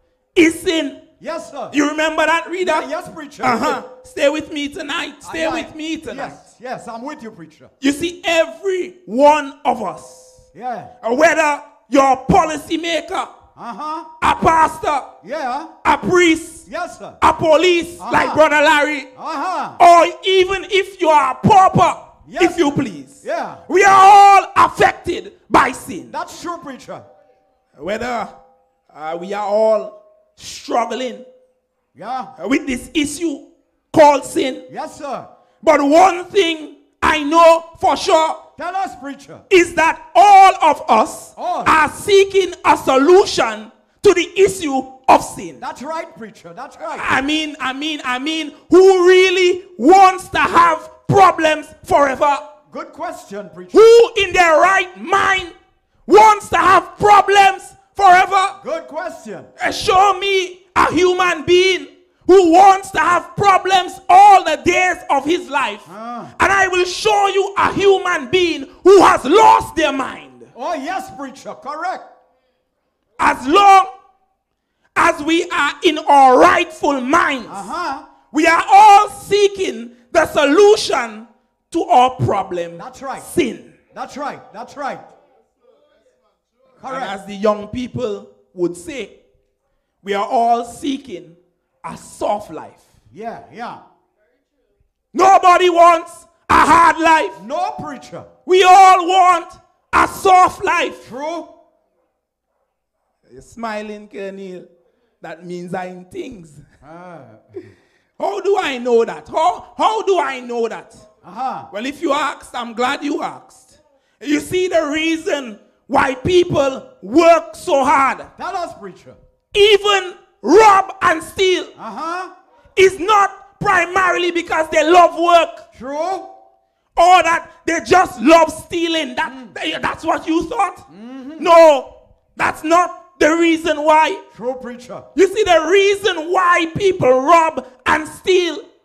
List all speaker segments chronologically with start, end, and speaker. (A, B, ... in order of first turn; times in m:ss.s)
0:00.4-0:01.1 A
0:01.2-0:01.8 B
0:01.7-0:02.9 A
0:02.6-0:03.8 B
0:03.4-0:06.4 A
0:05.2-0:07.7 B
0:07.8-0:10.5 A
0:10.5-0:10.9 B
0:11.0-0:13.4 A
0:13.6-0:14.1 B
0:14.2-0:15.2 A
0:15.2-0:15.8 B
0:15.8-0:16.7 A
0:16.7-0:17.2 B
0:17.2-0:19.1 A
0:18.0-0:18.4 B
0:19.1-0:19.8 B
0:19.8-0:26.2 A
0:22.3-0:23.6 B
0:26.1-0:27.1 B
0:27.8-0:28.3 A
0:28.9-0:31.3 A
0:32.0-0:32.3 B
0:32.4-0:34.7 A
0:34.7-0:35.3 B
0:35.6-0:38.5 A
0:38.6-0:39.4 B
0:39.5-0:45.6 A
0:41.4-0:41.8 B
0:45.6-0:47.2 B
0:46.8-0:52.5 A
0:52.7-0:53.8 B
0:53.7-0:55.6 A
0:56.1-0:58.6 A
0:58.6-0:59.5 B
0:59.6-1:10.5 A
1:05.9-1:06.3 B
1:10.6-1:12.1 B
1:13.2-1:13.9 A
1:15.0-1:17.7 A
1:17.5-1:18.1 B
1:18.3-1:23.8 A
1:22.8-1:23.3 B
1:23.9-1:25.1 B
1:26.8-1:27.2 B
1:26.8-1:29.2 A
1:30.0-1:32.9 A
1:33.1-1:33.8 B
1:35.1-1:37.4 A
1:37.4-1:38.3 B
1:38.5-1:41.1 A
1:41.0-1:41.6 B
1:43.3-1:44.7 A
1:45.2-1:46.6 A
1:46.8-1:47.8 B
1:48.2-1:51.1 A
1:51.2-1:51.7 B
1:51.7-1:58.3 A
1:58.4-1:59.2 B
1:59.5-2:01.7 A
2:01.8-2:02.3 B
2:02.8-2:05.7 A
2:05.7-2:06.4 B
2:07.0-2:14.2 A
2:09.2-2:09.5 B
2:10.9-2:11.5 B
2:14.3-2:15.1 B
2:15.2-2:18.7 A